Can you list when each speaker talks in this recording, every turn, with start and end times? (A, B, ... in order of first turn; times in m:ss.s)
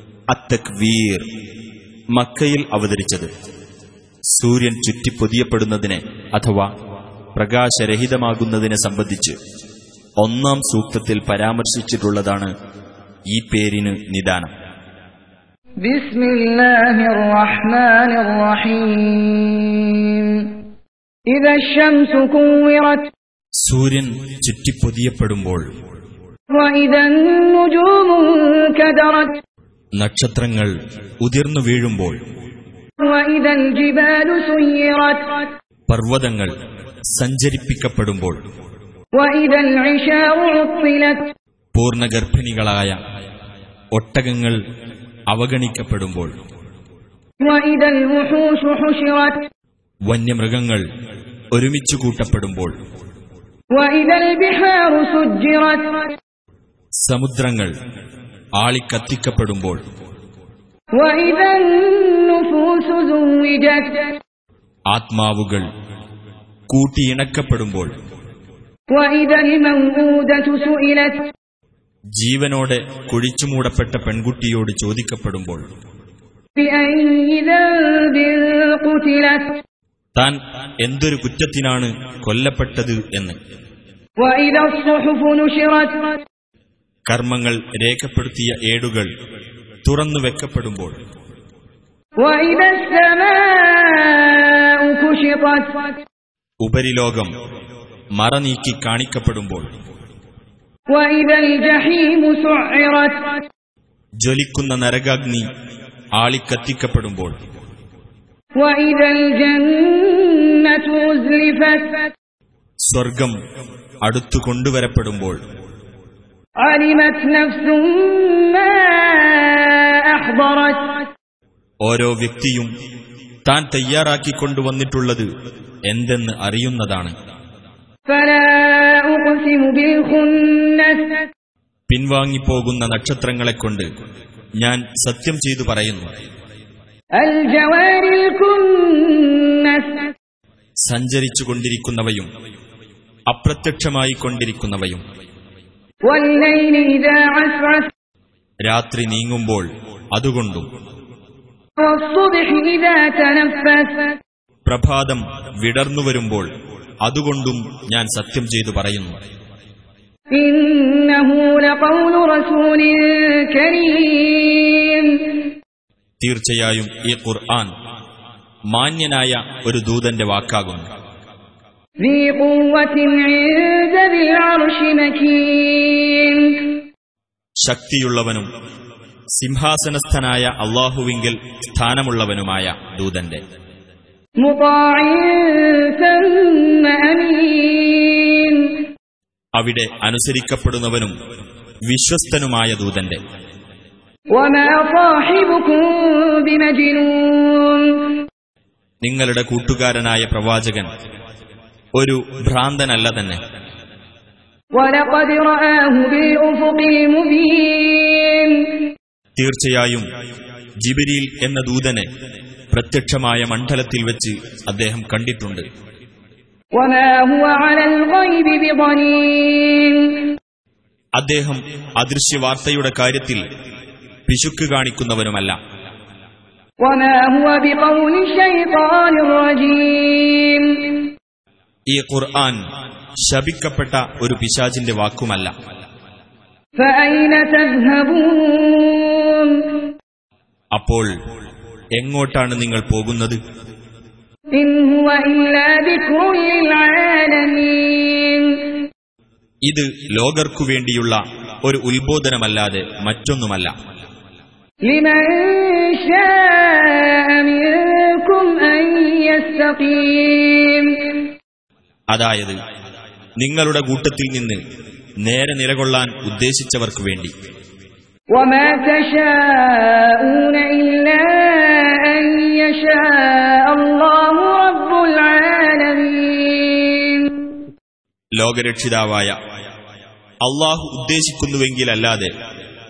0:00.3-0:01.2 A
0:02.1-0:03.3 A
0:04.3-0:06.7 A
0:07.4-0:09.4 A
0:10.2-0:12.5 A
0:13.3-0:14.5 A
0:15.8-0:20.6 B
0:21.3-0:23.1 B
0:23.6-0:25.6 A
0:26.5-0:29.4 B
0:30.0-0:32.2 A
0:33.0-0:35.5 B
0:35.9-0:36.5 A
0:37.2-0:38.4 A
0:39.2-0:41.2 B
0:41.8-0:43.0 A
0:44.0-0:44.6 A
0:45.3-0:46.3 A
0:47.4-0:49.5 B
0:50.1-0:50.8 A
0:51.5-0:52.7 A
0:53.7-0:56.2 B
0:57.0-0:57.7 A
0:58.6-0:59.8 A
1:01.0-1:04.2 B
1:04.9-1:05.7 A
1:06.7-1:07.9 A
1:08.9-1:11.3 B
1:12.2-1:15.6 A
1:16.6-1:19.6 B
1:20.2-1:23.4 A
1:24.2-1:26.2 B
1:27.1-1:29.1 A
1:29.8-1:30.9 A
1:32.2-1:36.0 B
1:36.6-1:37.3 A
1:38.2-1:39.7 A
1:40.9-1:43.4 B
1:44.2-1:45.4 A
1:46.2-1:47.3 A
1:48.6-1:52.1 B
1:52.9-1:53.3 A
1:54.0-1:55.4 A
1:56.6-2:01.1 B
2:01.8-2:02.7 A
2:03.4-2:05.3 A
2:05.9-2:07.1 A
2:08.1-2:11.3 B
2:11.9-2:13.9 A
2:14.6-2:16.1 A
2:17.2-2:20.1 B
2:20.9-2:22.3 A
2:23.3-2:25.0 A
2:26.1-2:27.9 B
2:28.7-2:30.7 A
2:31.8-2:34.2 B
2:34.7-2:36.5 A
2:37.0-2:39.1 A
2:40.3-2:45.5 B
2:46.2-2:47.7 A
2:48.7-2:50.8 A
2:52.0-2:56.8 B
2:57.6-2:58.5 A
2:59.4-3:03.4 A
3:04.4-3:08.9 B
3:09.6-3:11.1 A
3:11.9-3:13.2 A
3:14.3-3:18.2 B
3:19.0-3:20.9 A
3:22.0-3:23.4 A
3:24.7-3:28.9 B
3:29.4-3:30.0 A
3:30.8-3:32.1 A
3:32.7-3:35.6 A
3:36.7-3:40.3 B
3:41.2-3:43.4 A
3:44.3-3:45.6 A
3:46.8-3:51.1 B
3:51.9-3:52.6 A
3:53.2-3:55.5 A
3:56.8-3:59.9 B
4:00.8-4:01.1 A
4:02.0-4:03.4 A
4:04.5-4:08.8 B
4:09.7-4:13.7 A
4:14.9-4:21.3 B
4:22.1-4:22.6 A
4:23.4-4:24.6 A
4:25.2-4:27.3 A
4:28.3-4:37.6 B
4:38.4-4:39.3 A
4:40.4-4:42.3 A